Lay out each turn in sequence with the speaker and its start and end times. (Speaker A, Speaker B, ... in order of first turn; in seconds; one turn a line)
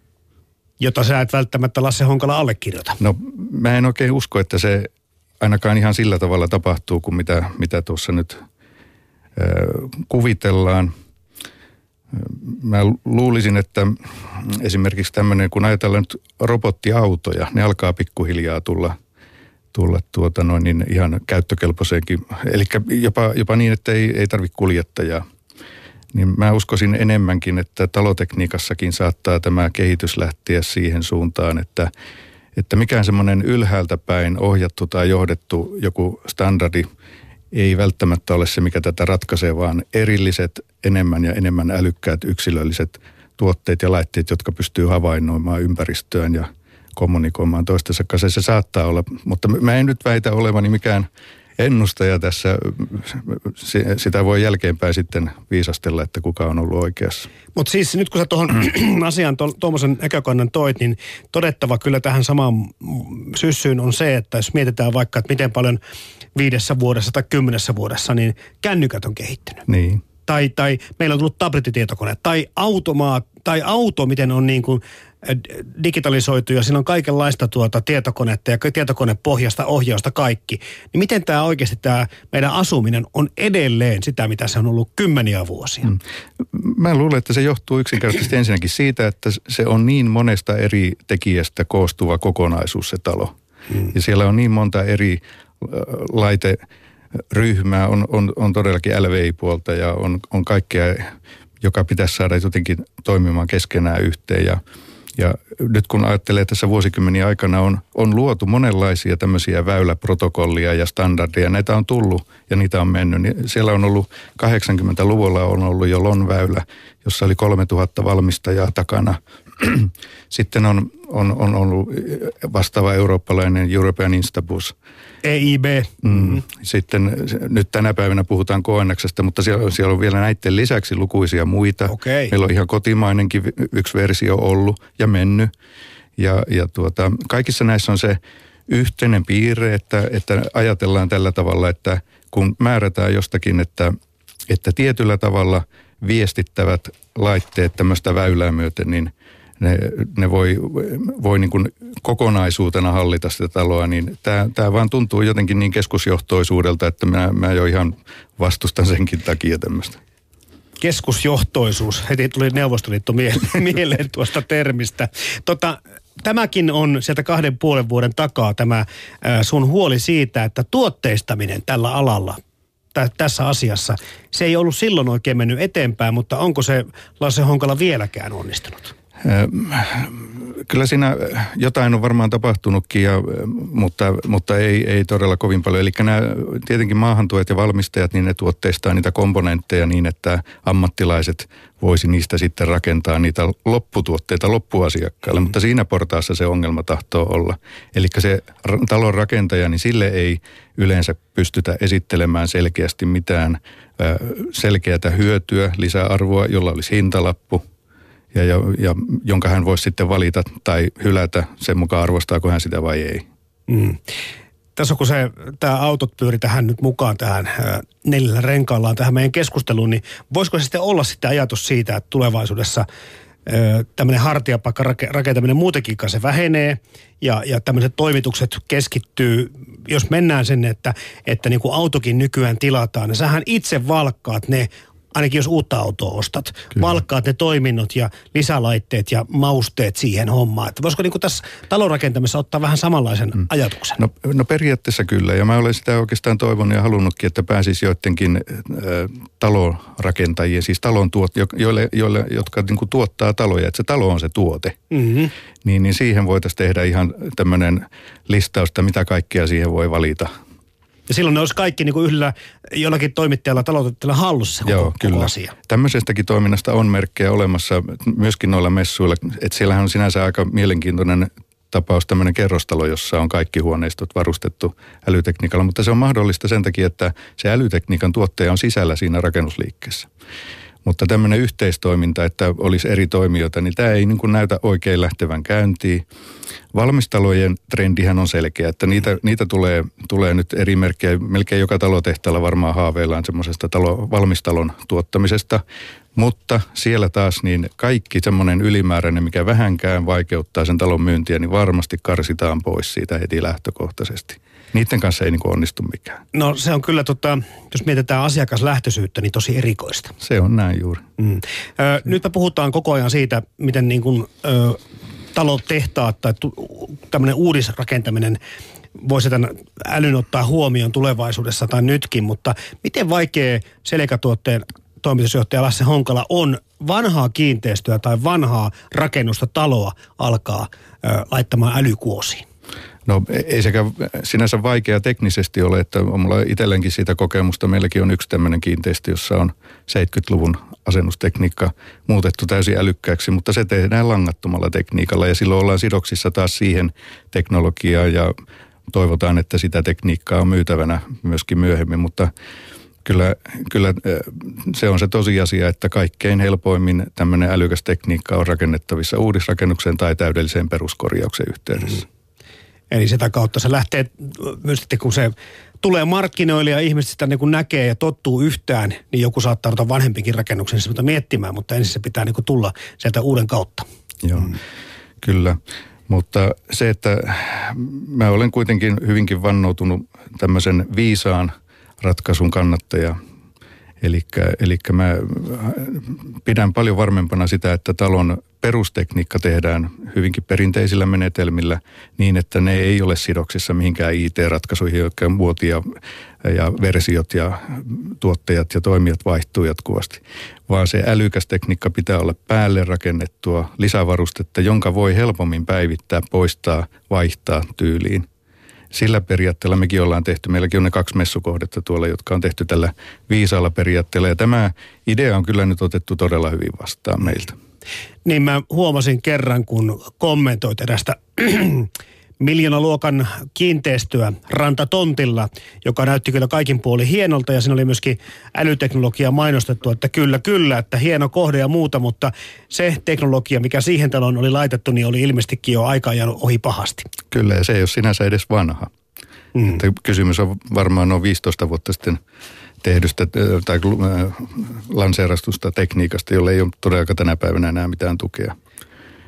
Speaker A: 0.8-3.0
Speaker B: 3.0-4.9
Speaker B: 5.4-8.4
Speaker B: 9.4-10.9
Speaker B: 12.1-19.0
Speaker B: 19.7-25.2
Speaker B: 26.1-31.9
Speaker B: 32.6-36.9
Speaker B: 37.5-57.3
Speaker A: 57.5-65.8
Speaker A: 66.4-69.7
Speaker B: 69.7-70.0
Speaker A: 70.3-85.9
Speaker B: 85.9-93.3
Speaker B: 93.9-96.6
Speaker B: 97.2-104.6
Speaker B: 105.2-124.7
Speaker A: 125.2-126.4
Speaker B: 126.0-135.5
Speaker A: 131.9-132.3
Speaker B: 136.2-143.9
Speaker B: 144.5-160.0
Speaker A: 160.8-172.4
Speaker A: 172.9-178.9
Speaker B: 179.2-207.6
Speaker B: 208.3-213.3
Speaker A: 213.7-214.0
Speaker A: 214.8-222.9
Speaker A: 223.5-244.0
Speaker B: 244.0-254.8
Speaker A: 254.9-255.3
Speaker B: 255.6-260.3
Speaker A: 261.1-265.5
Speaker B: 264.6-280.1
Speaker B: 280.9-286.0
Speaker B: 286.7-295.6
Speaker B: 296.1-306.2
Speaker A: 306.3-310.1
Speaker B: 310.2-311.0
Speaker A: 311.2-314.8
Speaker A: 315.3-318.4
Speaker A: 319.0-332.4
Speaker B: 333.1-348.3
Speaker B: 348.9-352.3
Speaker B: 353.1-362.1
Speaker A: 362.9-373.9
Speaker B: 374.2-374.5
Speaker B: 375.2-383.2
Speaker B: 384.0-395.8
Speaker B: 396.4-408.3
Speaker B: 408.9-417.6
Speaker A: 418.2-437.1
Speaker B: 437.3-438.9
Speaker B: 439.6-442.2
Speaker B: 442.8-448.6